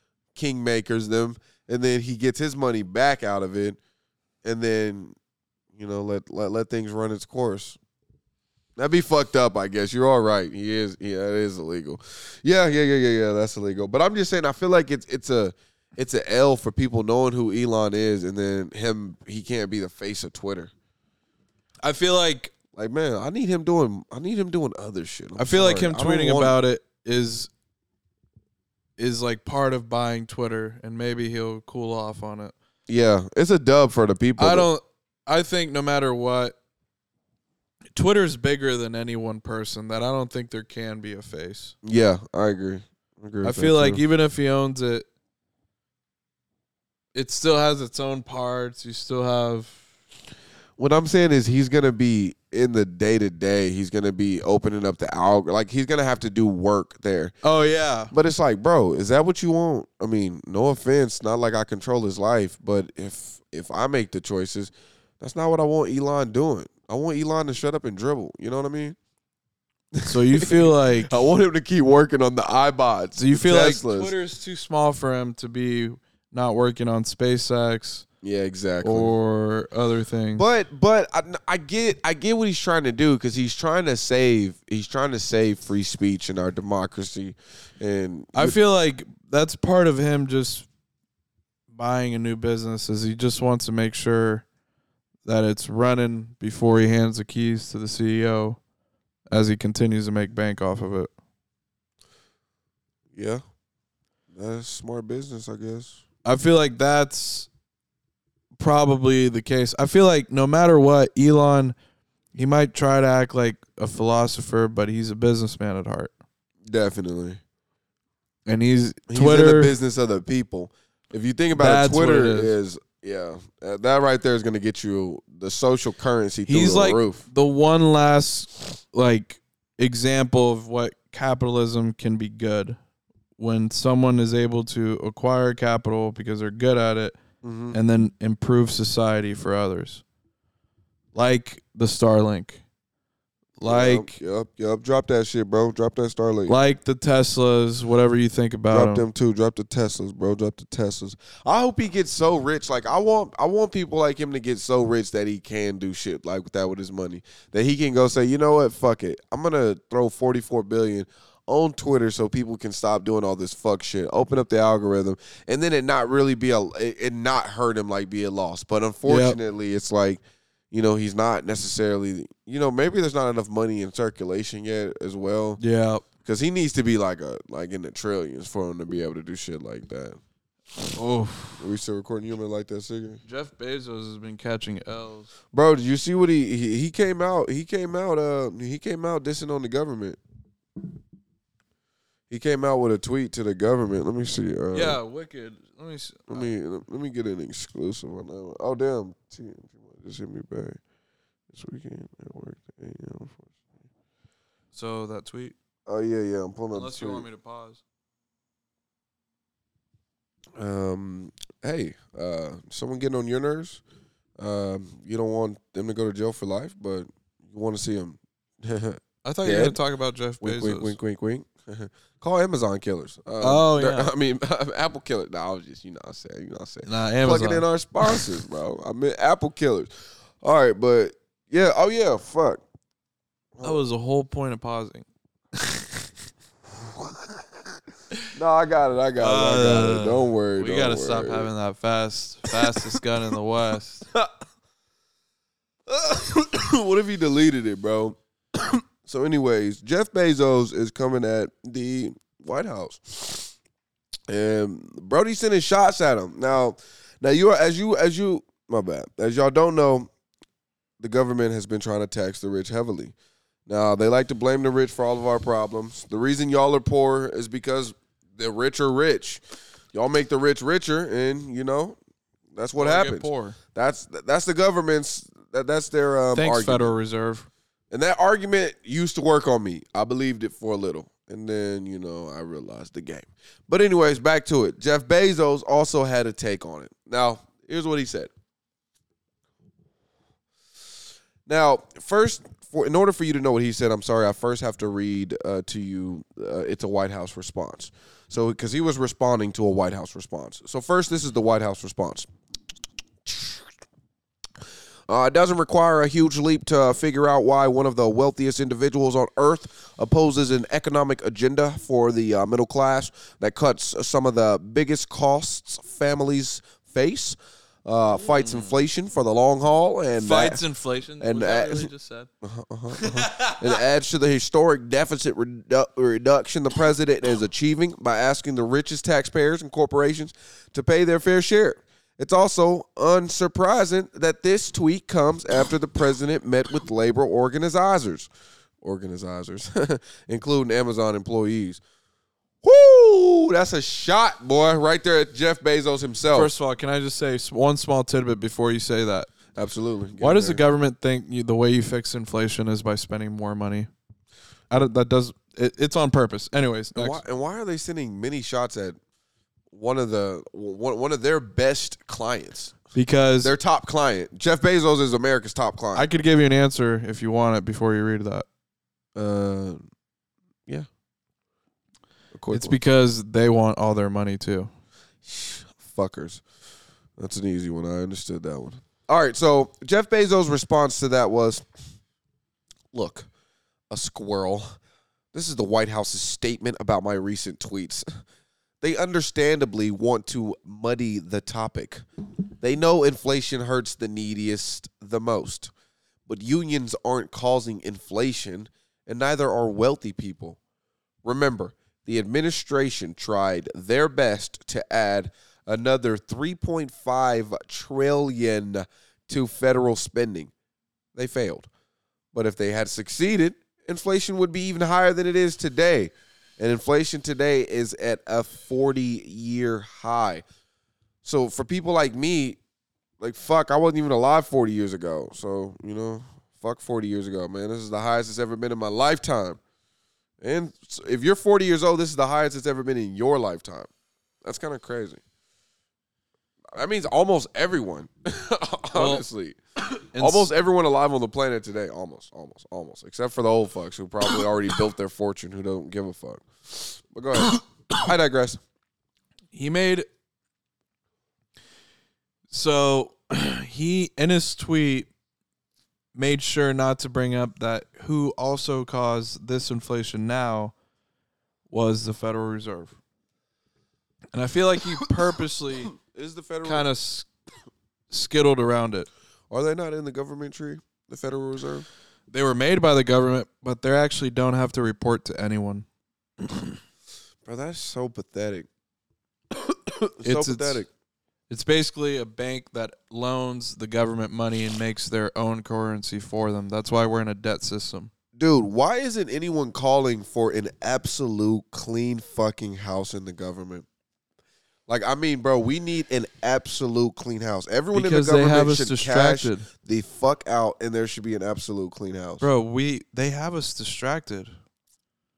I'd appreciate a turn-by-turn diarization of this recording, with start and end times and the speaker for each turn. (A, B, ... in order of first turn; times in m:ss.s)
0:00.3-0:03.8 A
0:04.4-0:05.2 A
0:05.7-0:07.8 A
0:08.8-0:20.7 A
0:21.8-0:22.5 B
0:22.7-0:26.6 A
0:25.4-0:27.5 B
0:29.0-0:32.5 B
0:32.9-0:34.7 A
0:34.4-0:36.5 B
0:37.9-0:41.7 B
0:41.8-0:44.0 A
0:43.4-0:45.1 B
0:47.1-0:49.8 B
0:50.8-0:57.3 A
0:57.4-0:58.1 B
0:58.1-1:09.0 A
1:09.9-1:14.1 A
1:10.1-1:11.1 B
1:13.2-1:18.0 B
1:18.2-1:19.1 A
1:18.8-1:20.4 B
1:20.4-1:28.6 A
1:28.3-1:30.7 B
1:31.7-1:34.4 B
1:35.2-1:38.6 B
1:39.3-1:41.1 B
1:43.1-1:43.4 A
1:44.3-1:46.0 A
1:46.2-1:47.5 B
1:48.6-1:51.7 B
1:52.3-1:56.1 B
1:56.7-1:57.4 A
1:58.4-1:59.7 B
1:59.1-2:07.2 A
2:01.5-2:02.5 B
2:06.5-2:12.8 B
2:13.4-2:17.2 B
2:17.4-2:17.8 A
2:17.7-2:20.0 B
2:21.1-2:22.6 B
2:23.6-2:24.1 B
2:23.6-2:26.6 A
2:26.5-2:29.0 B
2:28.7-2:55.6 A
2:49.0-2:49.4 B
2:55.6-2:56.0 B
2:56.2-3:00.2 A
3:00.9-3:01.6 B
3:01.6-3:03.2 A
3:03.2-3:05.3 B
3:05.5-3:10.2 A
3:12.3-3:15.0 A
3:14.7-3:16.5 B
3:16.3-3:20.8 A
3:21.5-3:23.5 A
3:24.7-3:25.5 B
3:25.8-3:27.2 A
3:26.7-3:27.8 B
3:30.6-3:33.8 A
3:34.4-3:39.8 A
3:39.2-3:41.0 B
3:40.4-3:49.9 A
3:43.4-3:44.1 B
3:46.8-3:48.3 B
3:50.4-3:52.6 A
3:53.5-3:53.8 A
3:53.6-3:56.1 B
3:58.3-4:01.5 A
3:59.2-4:04.1 B
4:05.9-4:13.5 A
4:14.3-4:20.1 A
4:21.0-4:23.1 A
4:23.7-4:29.4 A
4:29.9-4:32.0 A
4:32.5-4:36.9 A
4:32.8-4:33.6 B
4:36.3-4:37.5 B
4:37.9-4:48.3 A
4:51.4-5:02.3 A
5:03.2-5:03.6 A
5:05.1-5:20.6 A
5:18.2-5:18.8 B
5:20.2-5:22.3 B
5:21.2-5:21.9 A
5:22.4-5:38.3 A
5:23.0-5:23.7 B
5:38.8-5:41.8 A
5:42.6-5:46.5 A
5:46.3-5:49.3 B
5:49.5-5:50.6 A
5:50.2-5:53.9 B
5:54.7-5:57.2 B
5:56.9-5:59.0 A
5:59.7-6:02.8 A
6:02.9-6:03.5 B
6:03.4-6:06.1 A
6:05.9-6:08.4 B
6:09.2-6:09.9 A
6:12.3-6:12.8 A
6:12.5-6:14.7 B
6:15.2-6:16.4 A
6:17.2-6:21.6 A
6:22.9-6:23.3 A
6:23.9-6:24.7 A
6:25.3-6:28.0 A
6:28.8-6:32.0 A
6:32.6-6:35.7 A
6:36.3-6:40.6 A
6:41.2-6:50.5 A
6:51.1-6:51.7 A
6:52.3-7:00.4 A
7:01.2-7:02.6 A
7:03.2-7:09.6 A
7:10.4-7:13.9 A
7:14.4-7:15.2 A
7:16.7-7:28.6 A
7:18.9-7:19.2 B
7:20.1-7:20.5 B
7:29.5-7:30.0 B
7:32.5-7:35.1 B
7:36.1-7:40.7 B
7:41.7-7:42.9 B
7:44.3-7:45.9 B
7:46.0-7:46.9 A
7:46.6-7:47.3 B
7:48.1-7:49.1 B
7:49.5-7:51.9 A
7:52.3-7:55.9 B
7:56.4-7:56.8 B
7:57.4-7:58.7 A
7:59.5-8:00.9 A
8:00.2-8:00.8 B
8:01.5-8:08.1 B
8:08.4-8:13.8 A
8:14.9-8:22.5 A
8:17.9-8:19.6 B
8:22.4-8:24.5 B